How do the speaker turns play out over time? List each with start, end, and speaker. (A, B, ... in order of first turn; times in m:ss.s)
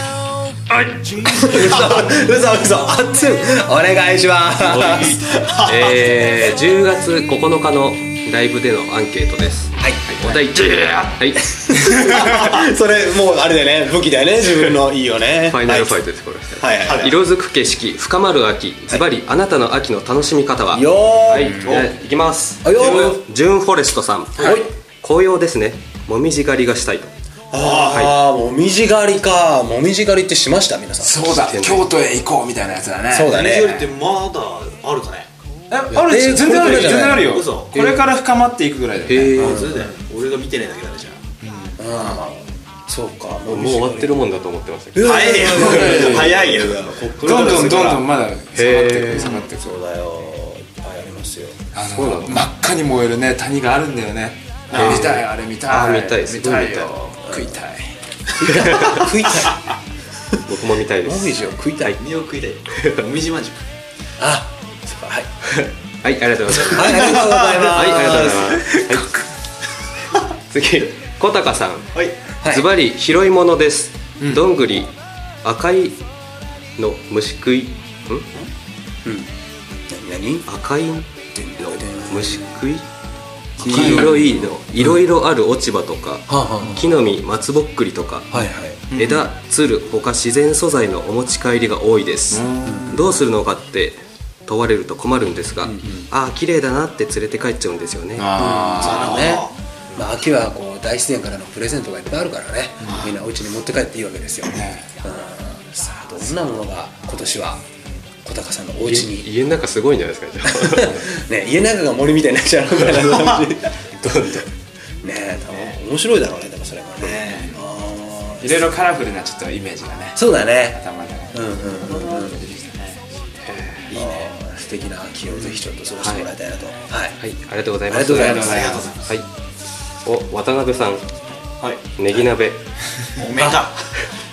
0:00.7-0:05.7 A
0:04.6-0:11.4 B
0:09.8-0:16.0 A
0:15.4-0:27.1 B
0:16.6-0:17.1 A
0:16.8-0:17.2 C
0:20.7-0:21.6 A
0:21.3-0:21.8 D
0:21.6-0:21.9 C
0:22.6-0:23.2 A
0:22.8-0:23.1 D
0:24.4-0:24.6 A
0:24.4-0:24.6 D
0:27.5-0:31.3 A
0:27.5-0:28.0 C
0:27.9-0:28.2 B
0:31.0-0:33.4 D
0:31.2-0:31.9 B
0:33.1-0:33.9 A
0:33.3-0:35.3 C
0:35.7-0:39.5 D
0:36.0-0:37.4 A
0:36.4-0:37.7 C
0:37.8-0:38.0 B
0:39.1-0:39.7 B
0:39.4-0:41.2 C
0:39.4-0:39.9 A
0:41.4-0:41.8 D
0:41.8-0:44.2 A
0:43.5-0:46.1 B
0:44.9-0:48.0 A
0:45.0-0:48.0 C
0:45.5-0:46.4 D
0:47.2-0:49.8 D
0:48.5-0:49.3 B
0:49.1-0:49.5 C
0:49.2-0:51.6 A
0:51.7-0:57.9 D
0:51.9-0:52.5 B
0:54.7-0:57.0 B
0:54.7-0:55.2 C
0:57.1-0:57.6 A
0:58.4-0:59.7 A
0:58.7-0:59.0 C
0:58.8-0:59.1 B
1:00.4-1:02.0 B
1:01.0-1:02.0 A
1:02.0-1:03.6 C
1:04.2-1:05.3 A
1:05.6-1:09.1 B
1:06.7-1:08.6 A
1:06.8-1:07.6 C
1:08.8-1:09.2 D
1:10.5-1:11.9 B
1:11.9-1:12.2 C
1:12.4-1:12.7 A
1:12.4-1:14.9 B
1:15.4-1:16.0 B
1:16.8-1:18.3 B
1:19.0-1:19.3 A
1:19.9-1:20.5 A
1:20.5-1:22.8 B
1:21.3-1:22.6 A
1:23.6-1:24.2 A
1:23.6-1:24.3 D
1:23.6-1:28.3 B
1:26.3-1:26.9 A
1:28.3-1:29.0 A
1:28.9-1:38.4 B
1:29.0-1:29.3 C
1:32.3-1:32.9 D
1:32.6-1:33.2 A
1:35.6-1:36.1 A
1:38.2-1:39.2 D
1:38.3-1:47.6 A
1:38.8-1:39.5 C
1:42.8-1:43.1 C
1:44.5-1:44.8 D
1:48.2-1:49.3 A
1:48.8-1:51.0 B
1:50.4-1:53.7 A
1:54.0-1:54.5 B
1:55.0-1:58.6 A
1:57.0-1:57.5 C
1:57.3-1:57.6 D
1:58.4-2:03.0 D
2:00.1-2:00.8 A
2:01.3-2:02.4 A
2:03.4-2:03.9 B
2:03.9-2:04.2 C
2:03.9-2:07.2 A
2:06.0-2:06.3 B
2:07.2-2:09.3 B
2:07.9-2:08.5 A
2:08.1-2:08.9 D
2:08.4-2:09.2 C
2:10.0-2:11.0 B
2:11.6-2:12.2 C
2:12.0-2:12.6 B
2:13.2-2:13.8 C
2:13.4-2:13.6 A